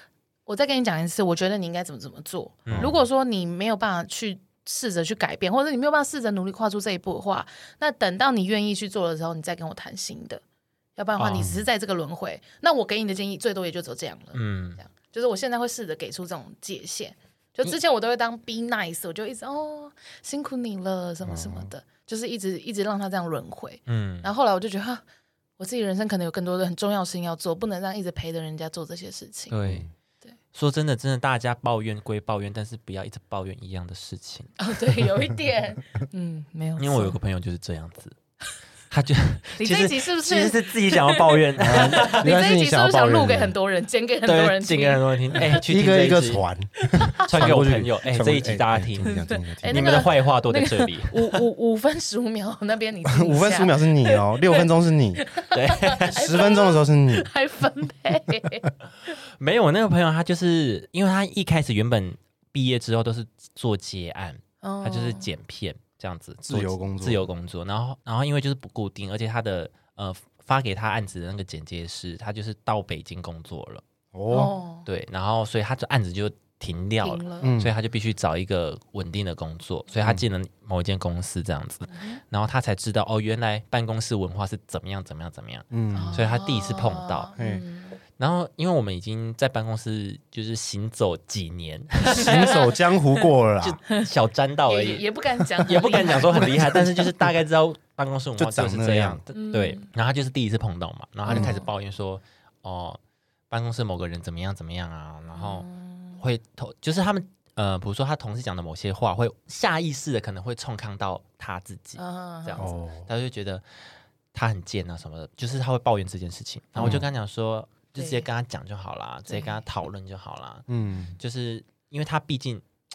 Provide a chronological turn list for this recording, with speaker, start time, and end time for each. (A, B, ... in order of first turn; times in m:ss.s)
0:00.5-0:10.4 A
0:02.7-0:03.0 B
0:02.7-0:03.0 C
0:11.0-0:25.0 A
0:11.2-0:11.5 B
0:11.3-0:11.6 C
0:14.3-0:14.8 B
0:21.2-0:21.7 C
0:23.9-0:24.3 B
0:25.6-0:29.6 A
0:29.5-0:29.9 B
0:29.6-0:29.9 C
0:30.5-0:34.6 B
0:34.6-0:37.2 A
0:36.8-0:38.2 B
0:38.9-0:42.3 B
0:39.6-0:45.6 A
0:41.6-0:43.5 C
0:44.3-0:46.4 B
0:45.4-0:50.1 C
0:46.8-0:47.3 A
0:47.2-0:49.2 B
0:49.0-0:54.6 A
0:49.7-0:51.4 B
0:53.0-0:55.2 C
0:55.2-0:58.7 A
0:55.5-0:56.2 B
0:56.1-0:57.3 C
0:59.4-1:13.8 B
1:04.6-1:05.3 A
1:06.4-1:07.3 C
1:14.1-1:14.5 C
1:14.3-1:14.9 A
1:14.9-1:27.3 B
1:17.0-1:17.5 A
1:17.4-1:17.7 C
1:21.9-1:22.2 A
1:25.7-1:26.2 C
1:25.9-1:28.0 A
1:27.4-1:27.6 C
1:28.2-1:32.5 B
1:32.1-1:33.8 C
1:32.3-1:32.7 A
1:33.6-1:35.0 B
1:34.7-1:36.6 A
1:35.6-1:43.0 B
1:36.4-1:37.3 C
1:38.4-1:39.2 C
1:39.3-1:39.9 A
1:41.3-1:41.5 C
1:41.3-1:41.7 A
1:43.5-1:45.7 B
1:45.3-1:46.2 A
1:46.2-1:53.6 B
1:52.0-1:52.8 A
1:52.6-1:53.1 C
1:54.3-2:00.7 B
1:56.8-1:57.1 C
1:58.0-1:58.3 A
1:59.3-1:59.6 A
2:00.7-2:01.2 C
2:01.2-2:02.7 B